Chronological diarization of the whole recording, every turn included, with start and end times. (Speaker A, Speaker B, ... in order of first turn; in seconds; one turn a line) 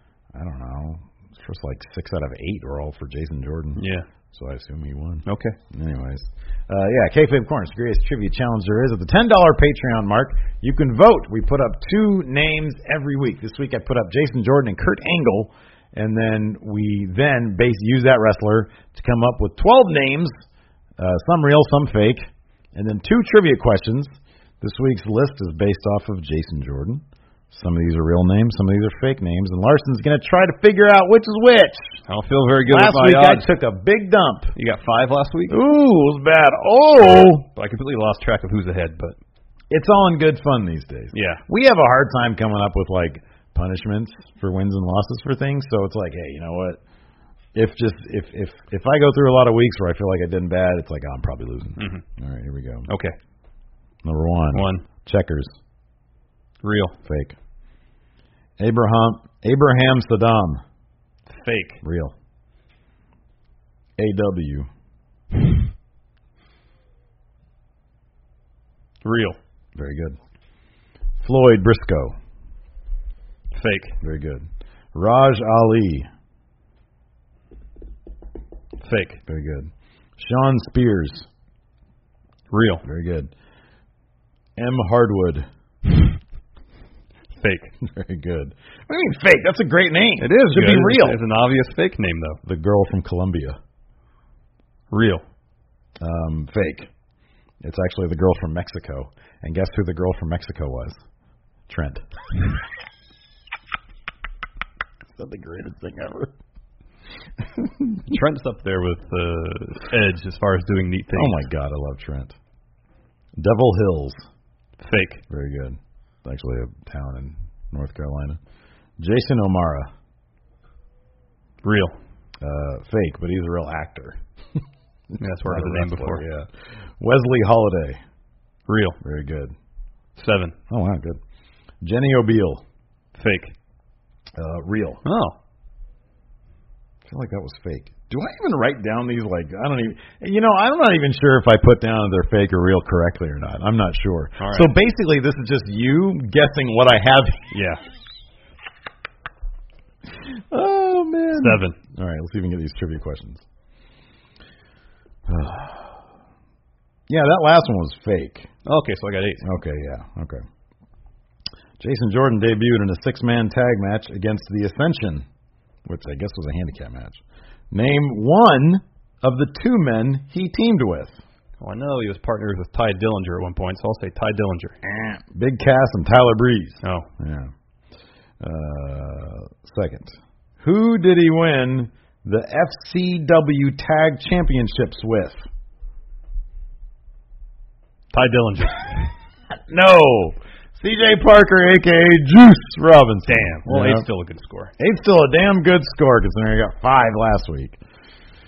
Speaker A: 0.3-3.8
Speaker B: 3.8-4.1
Speaker A: 4.3-20.4
Speaker B: 5.2-5.5
Speaker A: 21.0-24.1
Speaker A: 24.6-32.0
Speaker B: 32.1-33.5
Speaker A: 32.6-34.5
Speaker B: 34.5-35.6
Speaker A: 35.5-37.5
Speaker B: 37.1-39.2
Speaker A: 39.7-46.8
Speaker B: 41.1-41.4
Speaker A: 47.5-52.9
Speaker B: 51.8-52.0
Speaker B: 52.9-53.1
Speaker A: 54.0-55.5
Speaker B: 54.5-54.9
Speaker B: 56.6-57.0
Speaker A: 57.0-57.4
Speaker A: 58.6-60.6
Speaker B: 61.3-61.8
Speaker A: 61.8-62.1
Speaker A: 64.0-64.7
Speaker B: 69.0-69.4
Speaker A: 69.8-70.2
Speaker A: 71.2-72.2
Speaker B: 73.5-74.0
Speaker A: 74.0-76.1
Speaker B: 78.8-79.2
Speaker A: 79.3-81.3
Speaker B: 82.5-82.8
Speaker A: 82.8-83.3
Speaker A: 84.6-85.5
Speaker B: 87.4-87.8
Speaker A: 87.8-91.2
Speaker B: 90.2-92.4
Speaker A: 92.4-93.6
Speaker B: 94.9-95.2
Speaker A: 96.0-96.9
Speaker A: 97.6-101.0
Speaker A: 101.7-102.0
Speaker A: 105.1-106.3
Speaker A: 107.4-108.0
Speaker B: 108.0-111.4
Speaker A: 111.1-112.4
Speaker A: 113.4-114.2
Speaker B: 114.8-115.2
Speaker A: 115.3-118.4
Speaker A: 119.0-119.9
Speaker B: 121.6-122.0
Speaker A: 122.4-124.2
Speaker B: 125.2-126.2
Speaker A: 125.4-128.0
Speaker B: 128.7-129.0
Speaker A: 129.0-129.5
Speaker B: 130.2-130.6
Speaker A: 130.7-131.2
Speaker A: 131.8-132.6
Speaker B: 133.2-133.5
Speaker A: 134.4-135.0
Speaker B: 135.0-135.4
Speaker A: 137.0-147.4
Speaker B: 144.4-144.7
Speaker B: 147.5-147.8
Speaker A: 150.2-153.4
Speaker B: 151.3-151.8
Speaker A: 155.3-155.9
Speaker A: 157.1-158.5
Speaker B: 158.7-159.4
Speaker A: 159.4-160.4
Speaker A: 161.8-165.2
Speaker A: 165.9-171.2
Speaker B: 171.6-174.8
Speaker A: 174.8-177.5
Speaker B: 176.8-177.1
Speaker A: 178.4-185.4
Speaker B: 188.1-189.1
Speaker A: 189.6-194.0
Speaker B: 193.2-194.7
Speaker A: 194.8-197.8